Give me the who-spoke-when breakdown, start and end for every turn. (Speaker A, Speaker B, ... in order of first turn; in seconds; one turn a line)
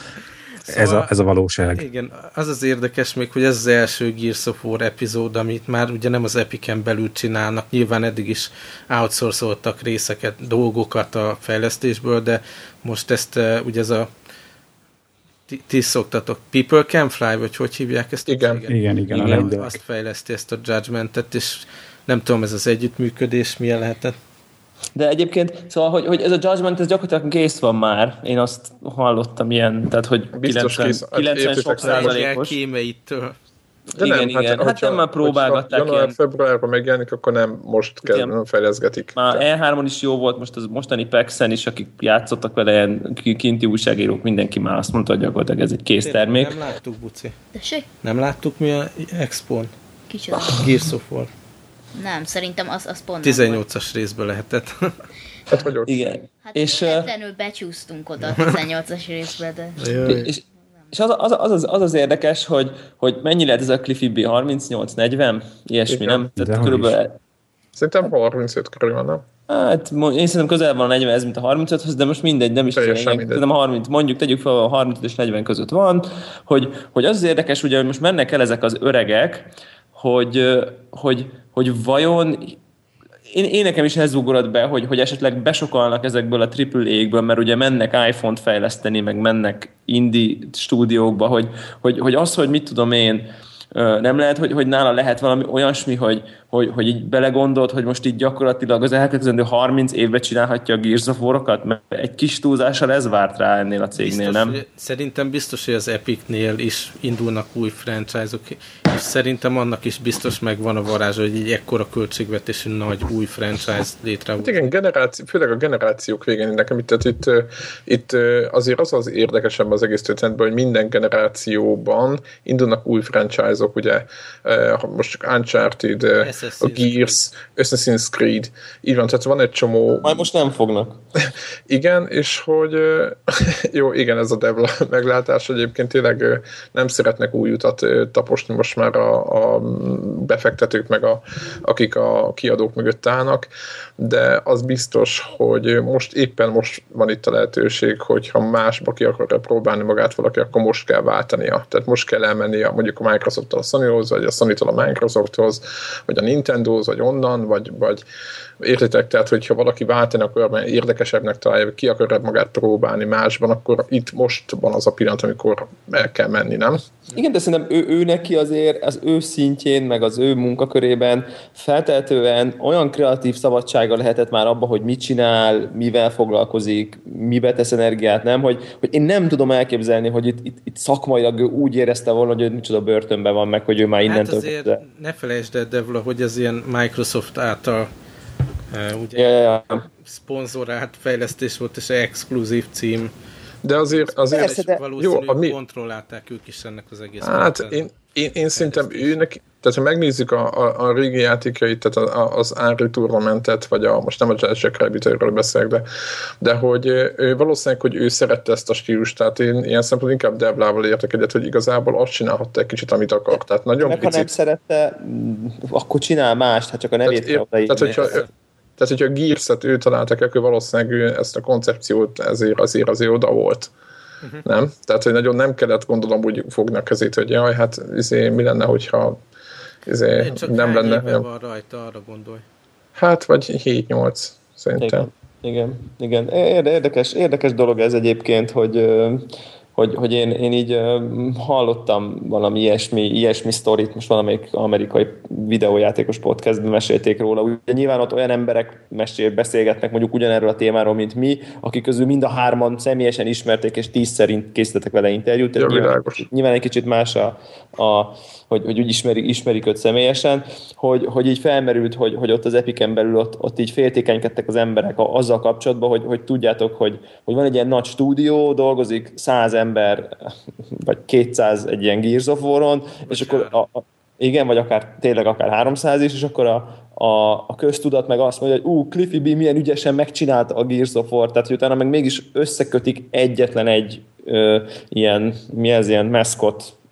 Speaker A: 0.6-1.1
Speaker B: 0.7-1.8
Speaker A: 1.7-14.1
Speaker A: 15.5-24.2
Speaker C: 18.3-18.6
Speaker B: 18.7-19.8
Speaker D: 24.9-32.6
Speaker C: 30.3-32.2
Speaker A: 31.8-33.4
Speaker D: 34.0-36.2
Speaker C: 34.0-39.4
Speaker D: 38.0-38.3
Speaker D: 39.1-46.6
Speaker A: 46.0-47.4
Speaker E: 47.5-47.9
Speaker A: 48.0-49.7
Speaker E: 50.1-50.7
Speaker A: 50.5-51.3
Speaker E: 52.0-53.6
Speaker A: 53.2-55.1
Speaker C: 55.5-56.0
Speaker D: 55.9-57.1
Speaker E: 56.4-60.5
Speaker A: 59.8-60.3
Speaker D: 60.0-67.2
Speaker C: 65.9-66.2
Speaker B: 66.4-67.0
Speaker C: 67.8-69.2
Speaker D: 69.5-82.6
Speaker C: 72.7-73.4
Speaker D: 83.3-104.6
Speaker A: 104.0-114.7
Speaker C: 114.4-130.3
Speaker A: 126.2-127.2
Speaker D: 130.0-131.0
Speaker C: 131.2-158.0
Speaker C: 158.6-166.8
Speaker D: 167.1-184.8
Speaker A: 184.1-187.9
Speaker A: 188.7-189.4
Speaker D: 189.2-189.8
Speaker A: 190.0-193.1
Speaker C: 193.6-195.6
Speaker A: 193.9-197.9
Speaker D: 194.3-194.8
Speaker C: 197.2-205.8
Speaker A: 198.5-199.3
Speaker C: 206.4-214.3
Speaker D: 213.3-218.3
Speaker C: 217.1-218.3
Speaker A: 217.8-218.3
Speaker C: 218.8-223.7
Speaker C: 224.4-229.2
Speaker C: 229.9-231.2
Speaker A: 230.2-232.4
Speaker C: 233.0-235.1
Speaker D: 234.8-286.8
Speaker C: 255.6-256.2
Speaker A: 273.1-273.6